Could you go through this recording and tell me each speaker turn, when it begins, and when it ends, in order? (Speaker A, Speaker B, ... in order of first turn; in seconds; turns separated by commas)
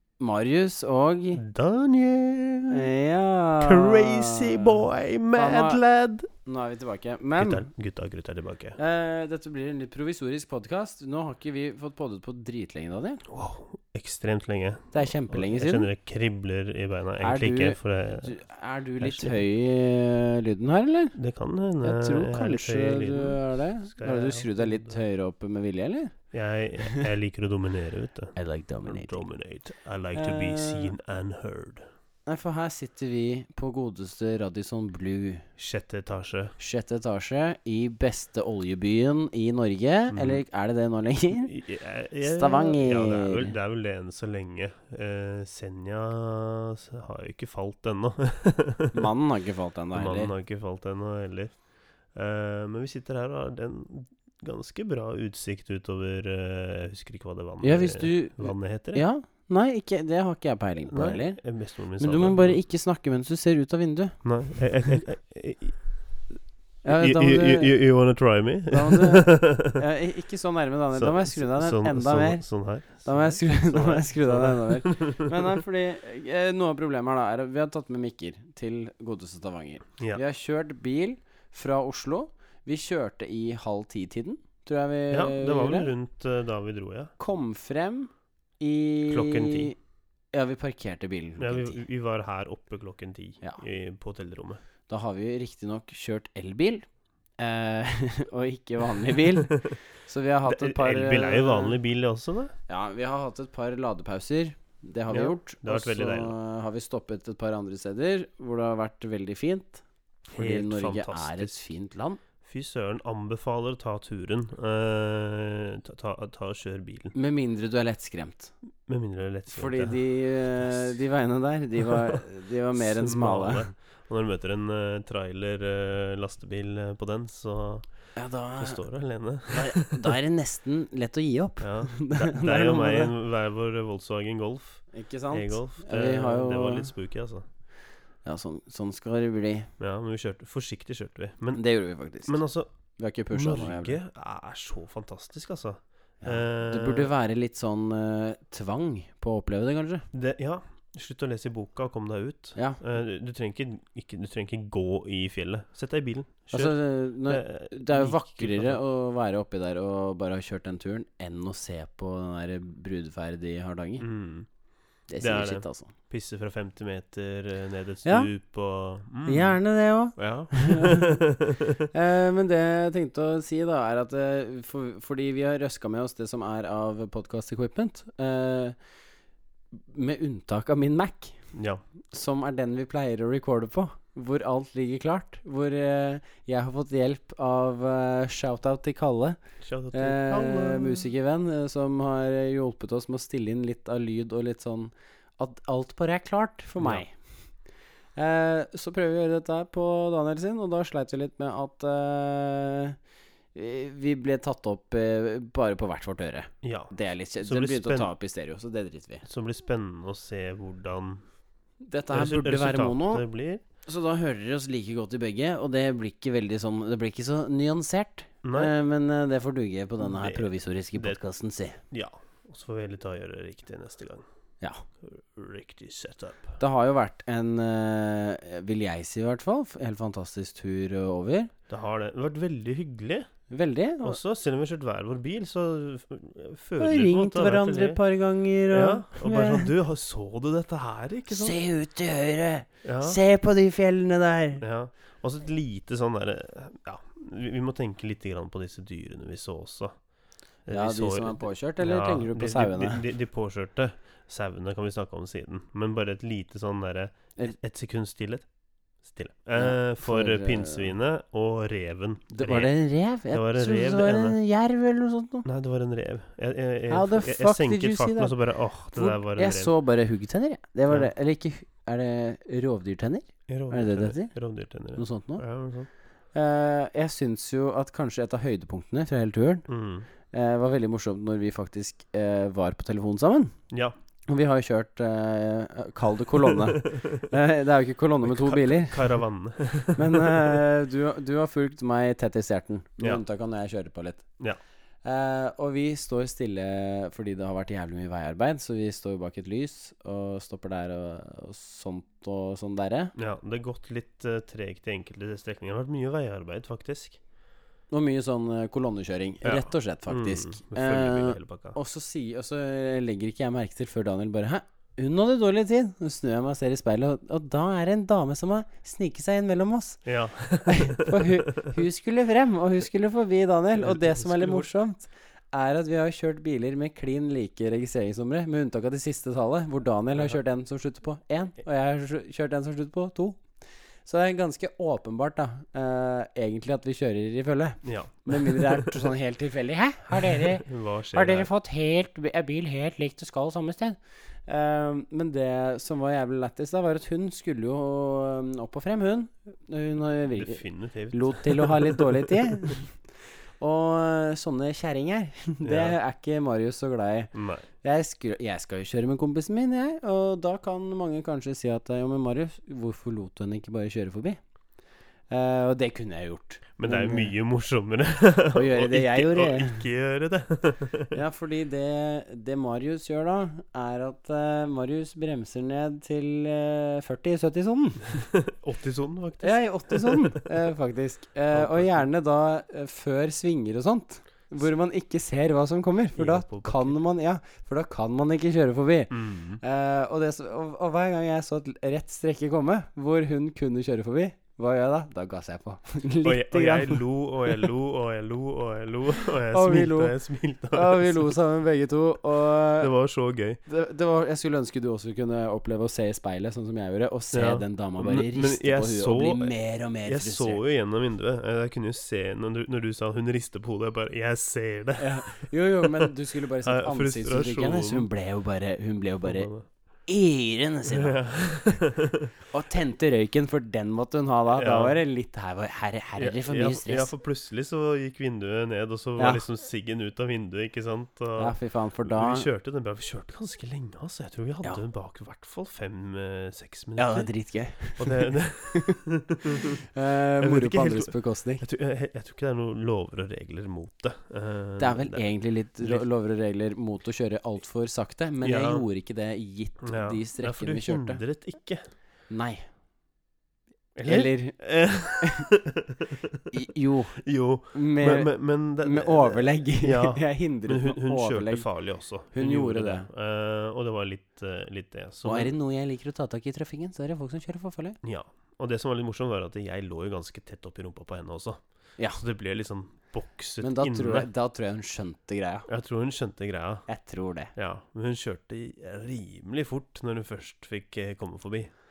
Speaker A: 0.2-1.4, Speaker B: 1.3-2.9, Speaker A: 2.7-5.8, Speaker B: 3.6-6.3, Speaker A: 6.4-7.7, Speaker B: 7.4-8.8, Speaker A: 8.8-13.2, Speaker B: 13.3-18.3, Speaker A: 14.9-15.9, Speaker A: 17.2-21.1, Speaker B: 19.0-19.4, Speaker B: 21.1-25.0, Speaker A: 21.8-26.1, Speaker B: 26.3-31.9, Speaker A: 26.8-27.1, Speaker A: 28.3-29.2, Speaker A: 30.1-30.9, Speaker A: 32.3-35.5, Speaker B: 35.6-36.5, Speaker A: 36.6-41.5, Speaker B: 40.1-40.4, Speaker B: 41.5-49.1, Speaker A: 42.2-43.5, Speaker A: 48.9-50.3, Speaker B: 49.9-51.6, Speaker B: 52.1-59.0, Speaker A: 57.6-61.4, Speaker B: 60.8-62.6, Speaker A: 62.0-64.2, Speaker B: 64.2-65.8, Speaker A: 66.8-67.7, Speaker B: 66.9-69.8, Speaker A: 68.7-85.9, Speaker B: 70.9-75.6, Speaker B: 85.1-87.1, Speaker A: 87.2-89.8, Speaker B: 89.1-89.7, Speaker A: 90.3-91.8, Speaker B: 91.4-94.6, Speaker A: 94.9-96.9, Speaker A: 97.4-101.8, Speaker B: 99.3-99.7, Speaker B: 100.5-102.5, Speaker A: 102.7-112.2, Speaker B: 105.1-106.3, Speaker B: 110.3-111.5, Speaker B: 112.4-117.1, Speaker A: 117.1-118.5, Speaker B: 118.9-120.0, Speaker A: 119.5-123.7, Speaker B: 120.6-120.8, Speaker B: 121.8-122.2, Speaker B: 122.7-127.9, Speaker A: 128.2-128.8, Speaker B: 128.6-130.2, Speaker A: 129.5-133.1, Speaker B: 131.6-137.4, Speaker A: 134.9-136.9, Speaker A: 138.2-139.7, Speaker B: 139.8-141.6, Speaker A: 141.5-142.4, Speaker B: 142.2-142.7, Speaker A: 143.0-144.0, Speaker B: 143.3-147.1, Speaker A: 146.2-150.1, Speaker B: 150.1-158.8, Speaker A: 152.5-152.8, Speaker A: 156.5-164.1, Speaker B: 164.0-164.5, Speaker A: 165.1-165.9, Speaker B: 165.2-169.6, Speaker A: 168.0-168.3, Speaker A: 169.2-171.2, Speaker B: 170.2-171.8, Speaker A: 171.9-178.7, Speaker A: 179.7-181.4, Speaker B: 181.5-181.8, Speaker A: 182.1-189.4, Speaker B: 189.6-191.1, Speaker A: 189.9-197.1, Speaker A: 198.2-203.0, Speaker A: 203.5-209.2, Speaker B: 206.6-208.1, Speaker B: 209.2-211.2, Speaker A: 211.8-213.2, Speaker B: 212.1-213.6, Speaker A: 213.8-221.8, Speaker B: 218.4-218.7, Speaker B: 220.0-221.2, Speaker B: 221.9-224.2, Speaker B: 225.0-226.6, Speaker A: 226.6-231.5, Speaker B: 231.7-233.3, Speaker A: 233.5-234.2, Speaker B: 234.0-238.0, Speaker A: 236.8-239.7, Speaker B: 238.7-241.6, Speaker A: 241.3-244.6, Speaker B: 242.8-243.2, Speaker B: 244.6-250.0, Speaker B: 250.7-258.5, Speaker A: 250.7-253.0, Speaker B: 259.0-262.7, Speaker A: 259.6-260.9, Speaker A: 262.3-265.5, Speaker B: 263.3-264.4, Speaker B: 265.4-269.7, Speaker A: 266.9-268.4, Speaker A: 268.9-274.3, Speaker B: 273.5-275.9, Speaker A: 274.9-275.4, Speaker A: 276.3-279.7, Speaker B: 279.7-280.1, Speaker A: 280.3-283.5, Speaker A: 284.3-289.2, Speaker B: 286.4-287.3, Speaker B: 288.2-290.6, Speaker A: 289.9-294.2, Speaker A: 295.0-303.1, Speaker B: 303.1-307.2, Speaker A: 307.9-320.0, Speaker B: 309.4-311.8, Speaker B: 320.0-321.7, Speaker A: 320.6-333.4, Speaker B: 323.7-324.7, Speaker B: 330.1-330.4, Speaker A: 334.0-364.4, Speaker B: 337.8-339.1, Speaker B: 340.2-341.5, Speaker B: 350.3-352.8, Speaker B: 355.6-355.9, Speaker B: 357.3-357.7, Speaker A: 365.3-367.3, Speaker B: 366.8-371.2, Speaker A: 368.5-369.9, Speaker A: 371.1-378.2, Speaker B: 378.1-380.4, Speaker A: 379.4-397.5, Speaker B: 381.5-382.0, Speaker B: 386.1-386.9, Speaker B: 389.1-389.6, Speaker B: 396.2-401.3, Speaker A: 399.4-400.2, Speaker A: 400.7-402.9, Speaker B: 402.8-403.6, Speaker A: 403.6-410.6, Speaker B: 407.3-418.1, Speaker A: 415.0-419.5, Speaker B: 419.2-419.6, Speaker A: 420.1-421.2, Speaker B: 420.9-422.3, Speaker A: 422.5-427.1, Speaker B: 424.5-425.0, Speaker B: 426.2-437.3, Speaker A: 429.2-429.4, Speaker A: 431.4-432.5, Speaker A: 436.9-441.6, Speaker B: 438.0-439.8, Speaker B: 440.4-445.2, Speaker A: 444.8-451.2, Speaker B: 445.8-446.0, Speaker B: 448.4-448.9, Speaker B: 449.8-451.9, Speaker A: 452.3-452.6, Speaker B: 453.9-456.5, Speaker A: 454.0-454.6, Speaker A: 455.2-455.5, Speaker A: 456.5-461.7, Speaker B: 457.2-465.5, Speaker A: 462.3-463.1, Speaker A: 465.2-468.0, Speaker B: 468.0-471.6, Speaker B: 472.1-474.3, Speaker A: 473.6-475.7, Speaker B: 475.7-476.9, Speaker A: 476.9-477.5, Speaker B: 477.5-481.7